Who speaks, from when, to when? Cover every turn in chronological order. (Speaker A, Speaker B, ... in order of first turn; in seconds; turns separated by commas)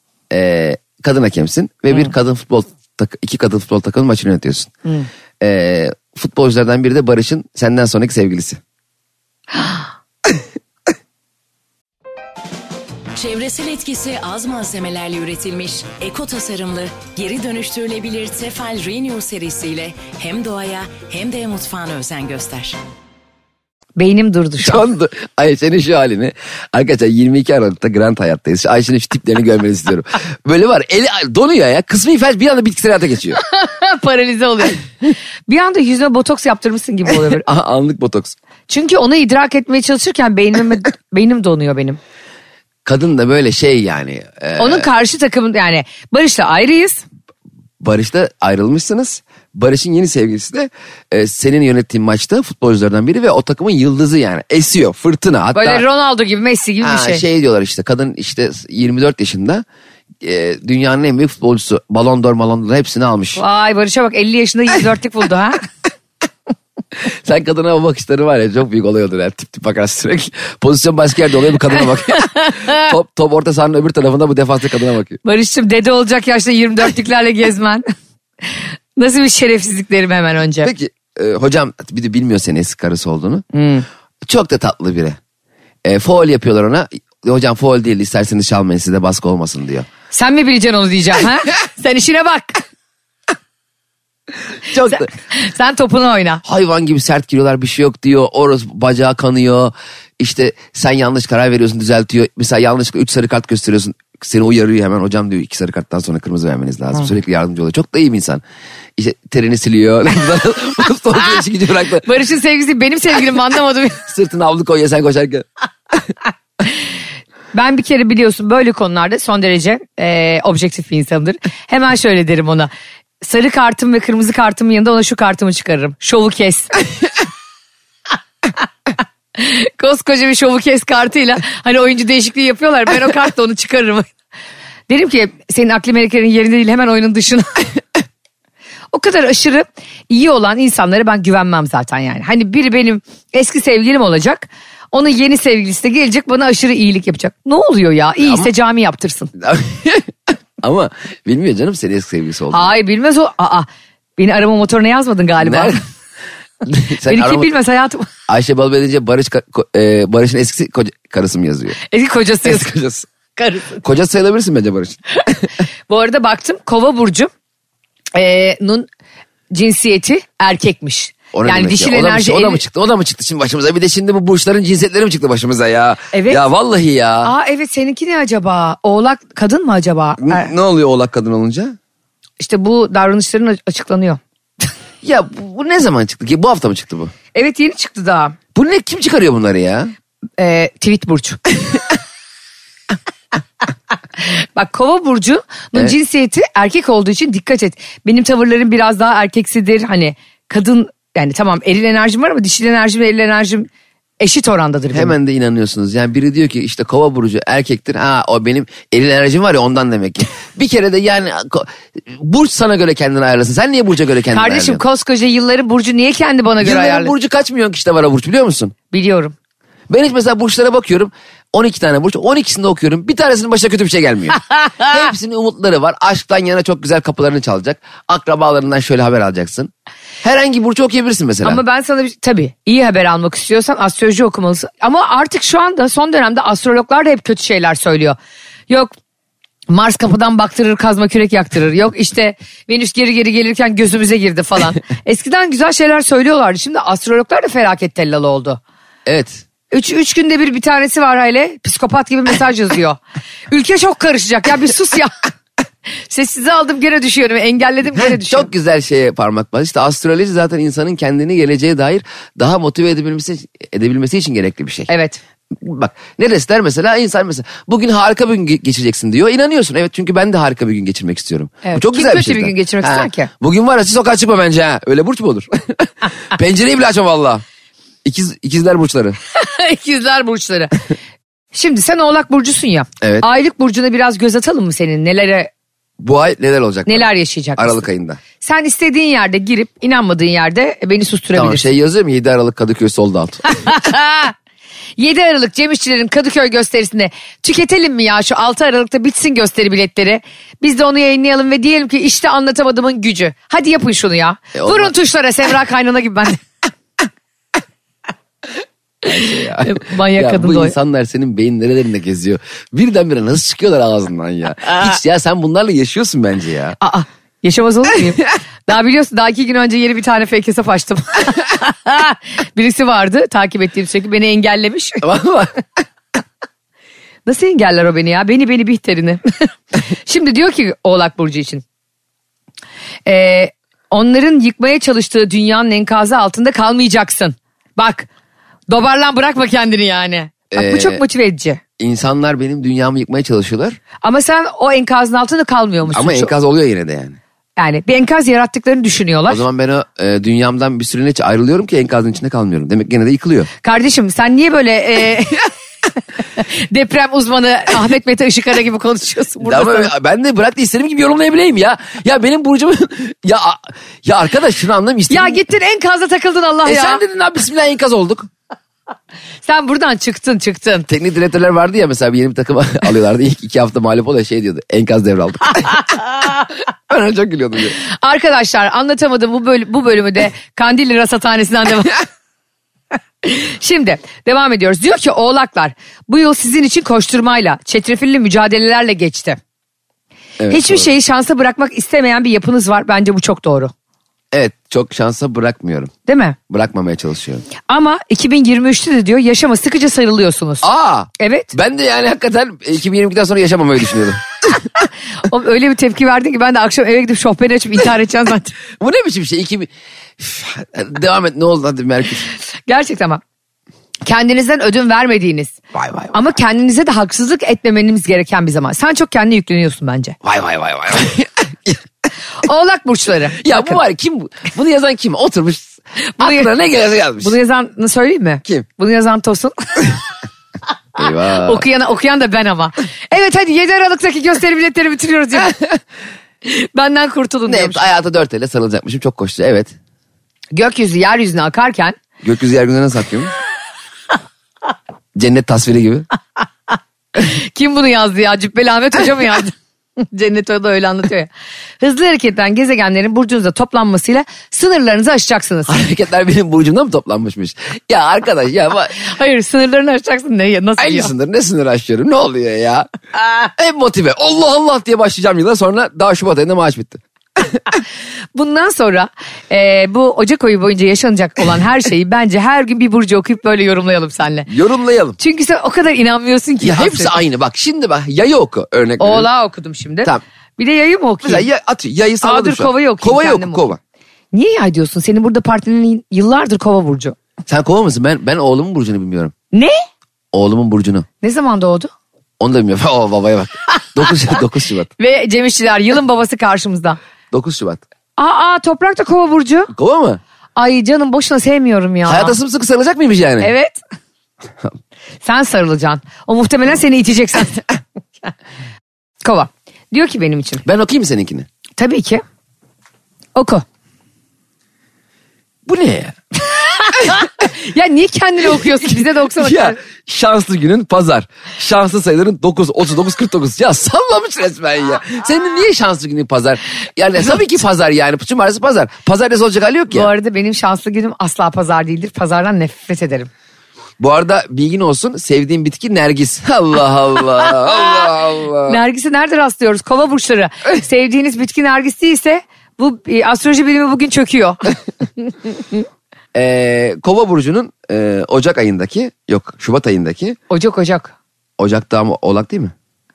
Speaker A: 0.3-4.7, Speaker A: 5.4-8.6, Speaker B: 13.2-22.8, Speaker C: 24.0-24.8, Speaker A: 24.6-33.4, Speaker C: 33.4-34.9, Speaker C: 35.5-37.5, Speaker A: 37.2-38.4, Speaker C: 38.7-42.0, Speaker A: 42.9-44.9, Speaker C: 44.6-47.0, Speaker A: 47.8-55.9, Speaker C: 55.5-57.2, Speaker A: 56.8-59.6, Speaker A: 60.2-63.4, Speaker C: 63.4-65.7, Speaker A: 67.0-75.2, Speaker C: 72.2-72.8, Speaker C: 75.2-77.8, Speaker C: 78.5-80.7, Speaker A: 80.6-83.5, Speaker C: 83.5-83.9, Speaker A: 84.2-85.2, Speaker A: 85.8-89.9, Speaker C: 90.1-92.6, Speaker A: 94.7-95.1, Speaker C: 94.8-96.4, Speaker A: 96.5-108.4, Speaker A: 109.0-112.1, Speaker C: 112.0-114.0, Speaker A: 114.1-115.5, Speaker C: 117.5-126.8, Speaker C: 129.4-134.1, Speaker C: 134.9-137.7, Speaker C: 138.9-149.3, Speaker A: 148.2-148.5, Speaker A: 149.4-152.7, Speaker C: 152.5-153.7, Speaker C: 154.2-155.8, Speaker A: 155.4-155.8, Speaker A: 156.7-157.5, Speaker C: 157.1-158.1, Speaker A: 158.3-161.8, Speaker C: 161.8-162.7, Speaker A: 162.4-163.1, Speaker C: 163.4-163.8, Speaker A: 163.8-165.0, Speaker C: 165.9-167.3, Speaker C: 168.1-168.9, Speaker C: 169.5-172.6, Speaker A: 171.3-177.3, Speaker C: 176.1-176.4, Speaker C: 177.2-180.5, Speaker A: 180.2-181.8, Speaker C: 182.4-184.2, Speaker A: 185.0-187.1, Speaker C: 187.3-188.4, Speaker A: 188.6-189.9, Speaker C: 190.4-191.4, Speaker C: 194.3-203.7, Speaker C: 204.2-205.2, Speaker A: 204.9-214.8, Speaker C: 214.3-217.1, Speaker A: 216.6-218.8, Speaker C: 218.9-219.3, Speaker A: 219.9-229.7, Speaker A: 230.2-231.6, Speaker C: 231.4-238.2, Speaker C: 239.7-248.6, Speaker A: 249.1-249.4, Speaker C: 249.7-255.2, Speaker C: 256.1-258.5, Speaker A: 257.9-264.9, Speaker C: 264.9-265.2, Speaker A: 265.5-277.4, Speaker C: 271.6-273.3, Speaker A: 278.1-279.2, Speaker C: 279.3-280.7, Speaker C: 281.5-285.5, Speaker A: 283.0-283.3, Speaker A: 286.0-288.2, Speaker C: 286.9-287.8, Speaker C: 288.4-291.7, Speaker A: 291.4-293.4, Speaker C: 293.5-294.3, Speaker C: 295.0-306.4, Speaker A: 304.6-304.9, Speaker A: 309.0-316.8, Speaker C: 309.6-310.8, Speaker C: 316.8-325.0, Speaker A: 325.0-325.5, Speaker C: 327.3-331.6, Speaker C: 333.1-338.1, Speaker C: 338.7-341.6, Speaker A: 340.5-341.0, Speaker A: 341.8-343.8, Speaker C: 344.0-346.3, Speaker A: 345.9-347.2, Speaker C: 347.6-349.4, Speaker A: 349.3-353.5, Speaker C: 353.6-355.5, Speaker C: 356.4-359.9, Speaker A: 359.4-365.4, Speaker C: 365.1-367.0, Speaker A: 366.6-368.3, Speaker C: 369.4-370.9, Speaker A: 370.9-375.8, Speaker A: 376.9-377.8, Speaker C: 377.8-382.0, Speaker C: 383.2-389.4, Speaker A: 390.4-390.9, Speaker C: 390.5-393.7, Speaker A: 394.3-395.9, Speaker C: 396.1-396.4, Speaker A: 396.5-397.5, Speaker C: 397.6-400.7, Speaker A: 400.6-404.6, Speaker C: 401.2-401.5, Speaker C: 405.2-408.6, Speaker A: 408.8-412.3, Speaker C: 412.7-413.2, Speaker C: 414.1-415.6, Speaker A: 415.7-416.1, Speaker C: 416.1-420.2, Speaker A: 420.2-421.8, Speaker C: 422.4-423.8, Speaker A: 423.4-427.4, Speaker C: 426.2-426.5, Speaker C: 427.2-430.0, Speaker A: 431.0-431.6, Speaker C: 431.3-435.5, Speaker C: 436.4-437.9, Speaker A: 437.5-439.7, Speaker C: 440.5-442.0, Speaker A: 442.2-443.3, Speaker A: 445.2-446.1, Speaker C: 447.2-451.3, Speaker C: 451.8-455.8, Speaker A: 455.7-459.0, Speaker C: 459.0-461.1, Speaker A: 460.8-462.9, Speaker A: 463.6-467.0, Speaker C: 468.4-474.5, Speaker A: 474.5-475.2, Speaker C: 475.2-477.2, Speaker A: 476.6-479.3, Speaker C: 479.0-481.5, Speaker A: 481.2-483.8, Speaker C: 482.2-483.7, Speaker C: 484.3-487.2, Speaker A: 487.5-489.3, Speaker A: 490.3-491.1, Speaker C: 491.2-491.9, Speaker A: 492.4-494.9, Speaker C: 495.0-497.0, Speaker A: 497.3-497.8, Speaker C: 498.2-499.7, Speaker A: 499.7-500.2, Speaker C: 500.6-502.4, Speaker A: 502.1-503.5, Speaker C: 503.4-503.8, Speaker C: 505.2-507.7, Speaker C: 509.2-510.6, Speaker A: 510.6-511.5, Speaker C: 511.8-512.2, Speaker C: 513.4-513.6, Speaker A: 515.7-516.2, Speaker C: 516.7-519.8, Speaker A: 519.4-530.1, Speaker C: 529.9-533.3, Speaker A: 534.0-538.8, Speaker C: 538.6-544.7, Speaker A: 546.3-550.4, Speaker C: 550.5-551.1, Speaker A: 551.6-552.7